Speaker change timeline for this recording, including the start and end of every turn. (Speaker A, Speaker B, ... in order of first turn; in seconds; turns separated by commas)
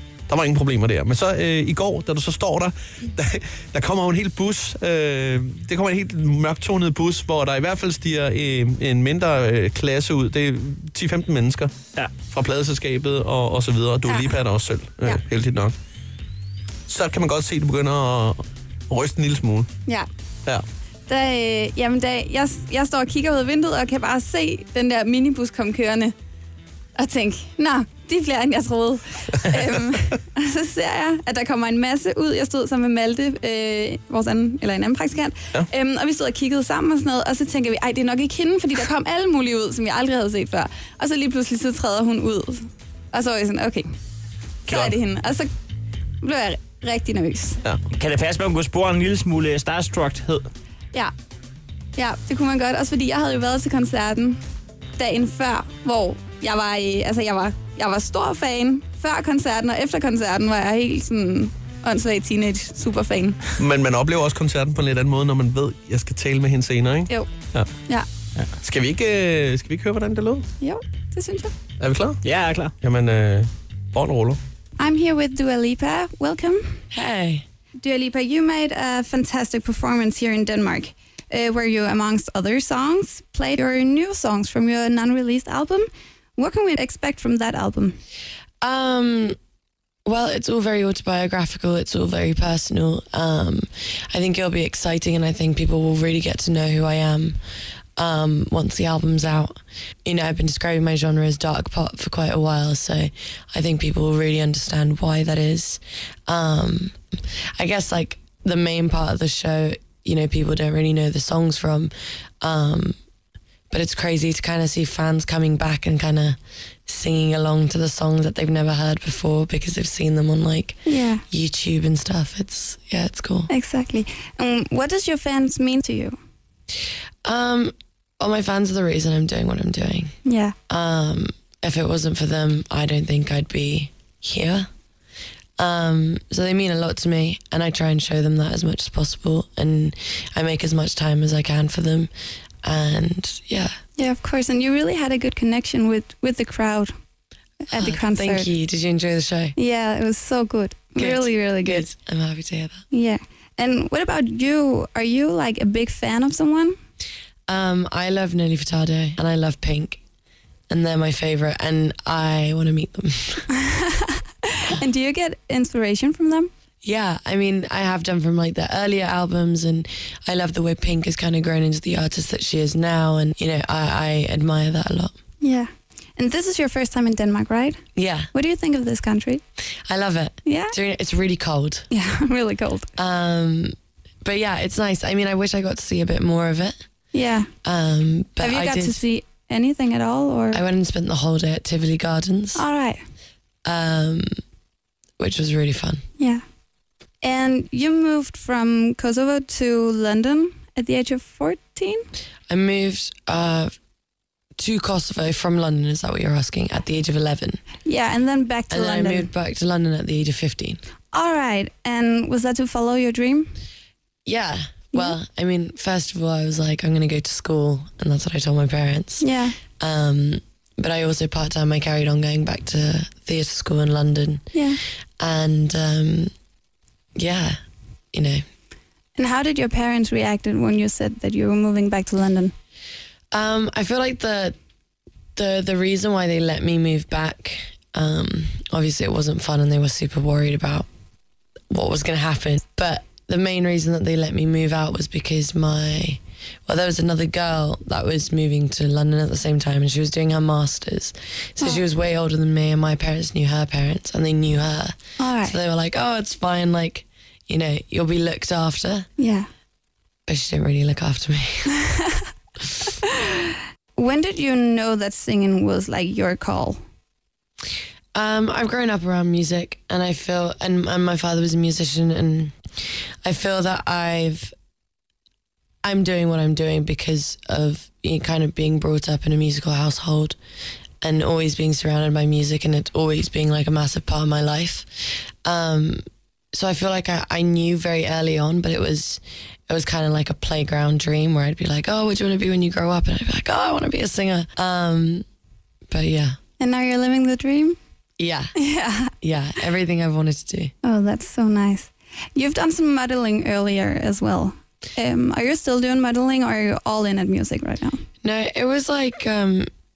Speaker A: 0.3-11.7, Speaker A: 12.3-15.8, Speaker B: 14.1-14.3, Speaker A: 16.9-19.7, Speaker B: 21.1-26.1, Speaker B: 27.0-43.9, Speaker B: 44.7-45.5, Speaker B: 46.2-47.6, Speaker C: 47.9-50.5, Speaker B: 52.0-54.4, Speaker B: 55.0-63.5, Speaker A: 63.6-67.7, Speaker A: 68.6-70.5, Speaker B: 70.6-71.5, Speaker A: 71.8-72.2, Speaker C: 72.2-72.7, Speaker A: 72.8-74.4, Speaker B: 74.8-76.8, Speaker D: 76.9-77.4, Speaker B: 77.8-88.0, Speaker D: 88.6-89.4, Speaker D: 90.1-97.4, Speaker D: 98.0-107.0, Speaker D: 107.6-113.0, Speaker D: 113.7-123.5, Speaker B: 120.9-121.2, Speaker B: 123.5-126.2, Speaker D: 127.2-130.1, Speaker B: 130.2-130.6, Speaker D: 130.7-134.7, Speaker D: 135.6-142.1, Speaker D: 142.6-143.7, Speaker B: 144.0-146.9, Speaker B: 147.7-148.5, Speaker D: 147.7-149.5, Speaker B: 149.6-151.8, Speaker D: 151.0-152.8, Speaker B: 152.9-156.8, Speaker D: 157.5-160.0, Speaker D: 160.7-163.4, Speaker B: 163.5-166.5, Speaker D: 166.8-175.2, Speaker B: 175.4-177.8, Speaker D: 178.0-178.3, Speaker B: 178.3-179.4, Speaker D: 179.9-181.9, Speaker B: 180.4-180.8, Speaker B: 181.9-182.9, Speaker D: 183.0-186.8, Speaker B: 187.1-187.5, Speaker D: 187.7-189.0, Speaker B: 188.4-190.6, Speaker D: 190.5-192.7, Speaker B: 192.6-193.0, Speaker D: 193.7-194.3, Speaker D: 195.2-196.0, Speaker B: 197.2-202.1, Speaker D: 202.5-203.7, Speaker D: 204.6-207.6, Speaker B: 207.8-209.3, Speaker D: 208.7-210.8, Speaker B: 211.1-213.5, Speaker D: 214.3-224.5, Speaker B: 219.2-219.6, Speaker B: 224.5-224.8, Speaker D: 225.2-226.3, Speaker D: 227.2-227.6, Speaker D: 228.1-228.4, Speaker B: 229.2-232.5, Speaker D: 233.3-234.6, Speaker D: 235.4-240.9, Speaker D: 241.7-259.1, Speaker B: 255.2-255.6, Speaker B: 259.2-259.5, Speaker D: 260.3-261.7, Speaker B: 261.7-262.2, Speaker B: 263.0-266.8, Speaker D: 268.1-272.5, Speaker D: 273.2-274.5, Speaker D: 275.8-280.4, Speaker D: 281.0-295.2, Speaker D: 295.9-296.4, Speaker B: 296.6-297.8, Speaker D: 298.2-298.5, Speaker B: 298.6-299.1, Speaker D: 299.2-300.7, Speaker B: 300.8-308.0, Speaker D: 308.2-309.7